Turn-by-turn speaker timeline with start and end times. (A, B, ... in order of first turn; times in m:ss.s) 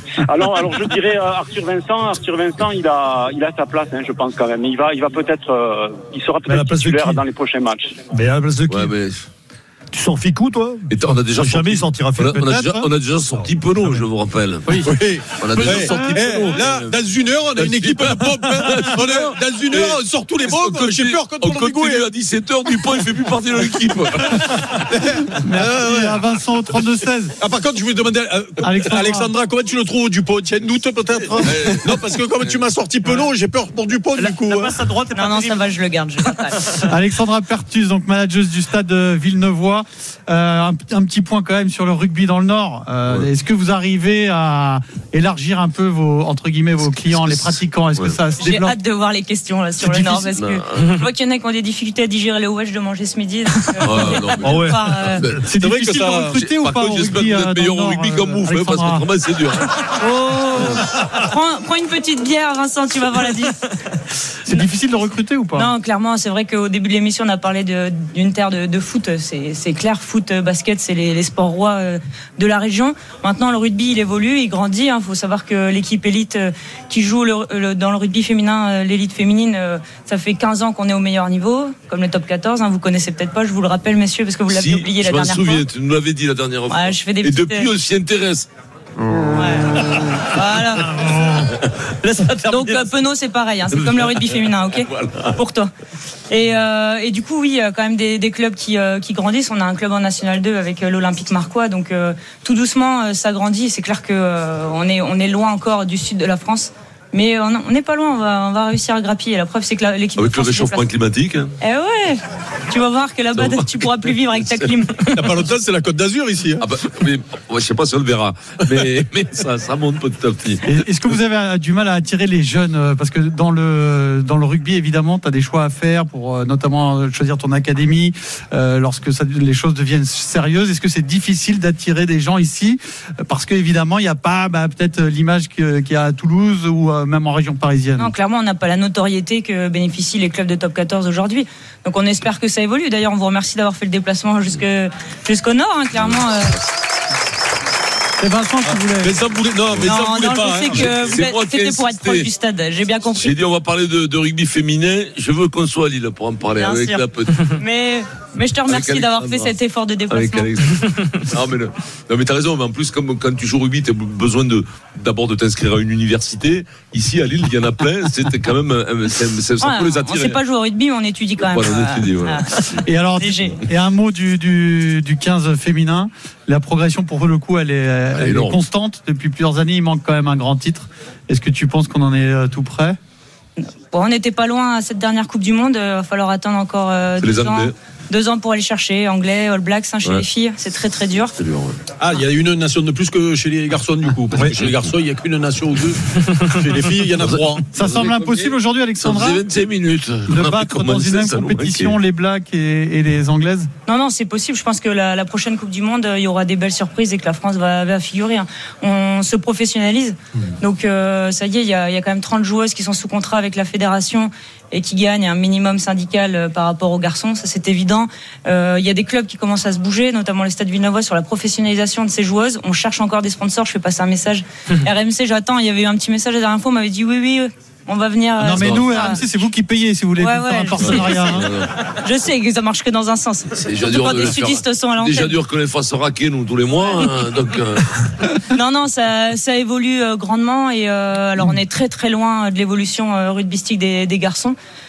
0:00.2-0:07.9 A
0:06.5-0:07.2 B
0:08.1-0:08.9 B
0:08.7-0:09.2 C
0:09.9-0:12.5 B
0:10.9-0:17.0 C
0:12.3-0:12.9 D
0:13.2-0:14.0 B
0:14.6-0:22.1 E
0:17.5-0:24.8 C
0:22.7-0:23.0 E
0:24.1-0:34.9 E
0:25.4-0:27.3 D
0:28.6-0:29.3 D
0:31.3-0:32.6 C
0:34.2-0:35.6 F
0:35.1-0:36.8 G
0:36.7-0:48.8 D
0:46.9-0:48.2 C
0:48.4-0:55.2 G
0:49.8-0:50.3 D
0:50.4-0:51.0 C
0:53.8-0:59.8 C
0:54.4-0:55.4 B
0:55.4-0:59.1 D
0:56.1-0:56.4 E
1:00.0-1:03.7 G
1:04.4-1:05.7 D
1:05.5-1:25.6 G
1:24.5-1:28.5 C
1:26.7-1:27.7 G
1:29.3-1:31.2 G
1:31.2-1:31.6 C
1:32.0-1:32.8 F
1:32.5-1:35.7 G
1:33.9-1:34.2 C
1:34.7-1:35.3 C
1:36.3-1:50.9 G
1:50.2-1:51.5 C
1:51.6-1:55.4 G
1:53.3-1:53.8 C
1:54.4-1:54.7 C
1:55.1-1:56.6 E
1:56.6-2:00.7 C
2:00.6-2:18.1 D
2:18.0-2:26.6 G
2:25.9-2:26.2 C
2:28.2-2:29.2 D
2:28.6-2:31.2 E
2:29.8-2:33.3 G
2:30.7-2:32.3 C
2:33.1-2:37.6 C
2:36.6-2:40.5 G
2:38.7-2:39.5 C
2:40.1-2:50.4 C
2:49.6-2:52.5 G
2:51.4-2:52.8 C
2:52.7-3:03.0 D
2:53.2-2:53.6 G
2:58.1-2:58.6 C
3:03.9-3:11.4 G
3:07.2-3:07.7 C
3:11.4-3:11.8 C
3:12.0-3:18.0 E
3:17.2-3:22.0 C
3:17.7-3:19.4 D
3:20.3-3:23.7 D
3:23.8-3:49.2 G
3:48.4-3:51.5 D
3:48.5-3:49.4 C
3:50.2-3:51.3 G
3:50.8-3:51.7 C
3:52.0-3:55.4 G
3:53.6-3:58.0 C
3:56.8-3:57.2 G
3:58.4-4:04.5 G